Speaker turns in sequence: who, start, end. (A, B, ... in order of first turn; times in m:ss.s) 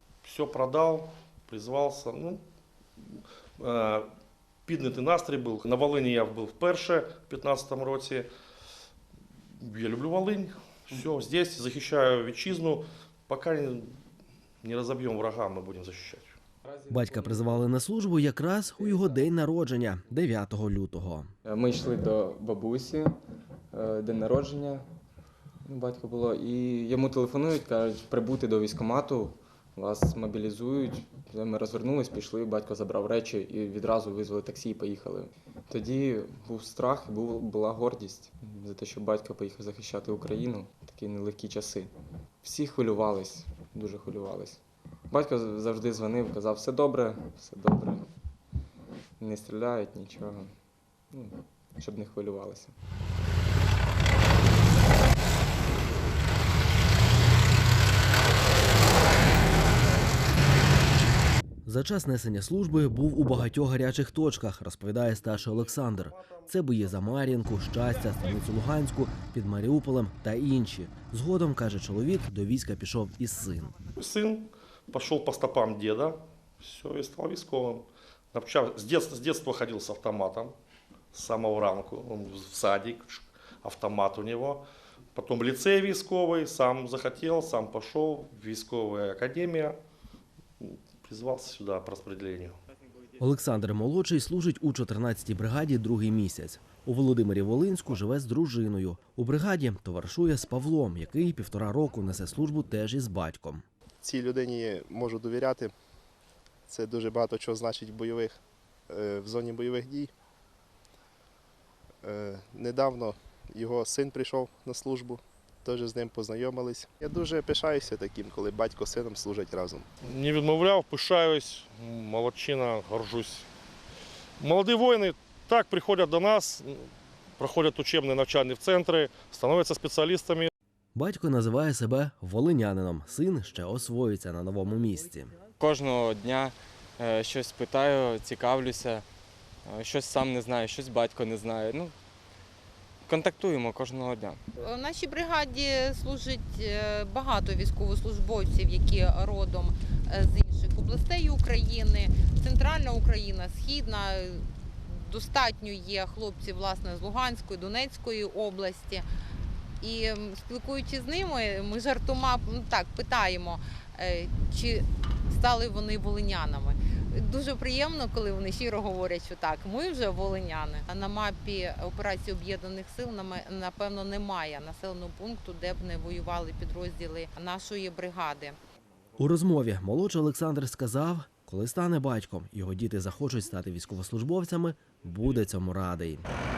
0:00.2-0:02.4 A
0:03.0-0:04.1 A
0:04.7-0:08.3 A
0:09.6-0:13.9 A
0:14.6-0:16.4 A
0:16.7-0:17.7 B
0:16.9-0:21.3 C
0:18.8-0:19.3 B
0:21.4-0:23.2 B
0:23.7-0:24.8 B
0:25.6-0:41.9 B
0:42.4-0:48.1 B
0:49.2-0:50.5 B
0:51.1-0:52.7 B
1:01.7-1:13.7 C
1:05.3-1:06.6 A
1:14.0-1:20.5 A
1:21.1-1:24.6 A
1:25.2-1:29.8 A
1:30.6-1:32.6 A
1:33.2-1:43.6 C
1:44.0-1:45.7 D
1:46.7-1:48.4 D
1:48.9-1:50.1 D
1:52.0-1:59.9 D
2:00.0-2:03.5 A
2:04.4-2:10.5 A
2:11.0-2:15.4 C
2:15.6-2:19.0 B
2:19.7-2:21.9 B
2:23.1-2:24.5 B
2:24.5-2:39.0 E
2:39.8-2:58.6 E
2:59.2-3:06.3 C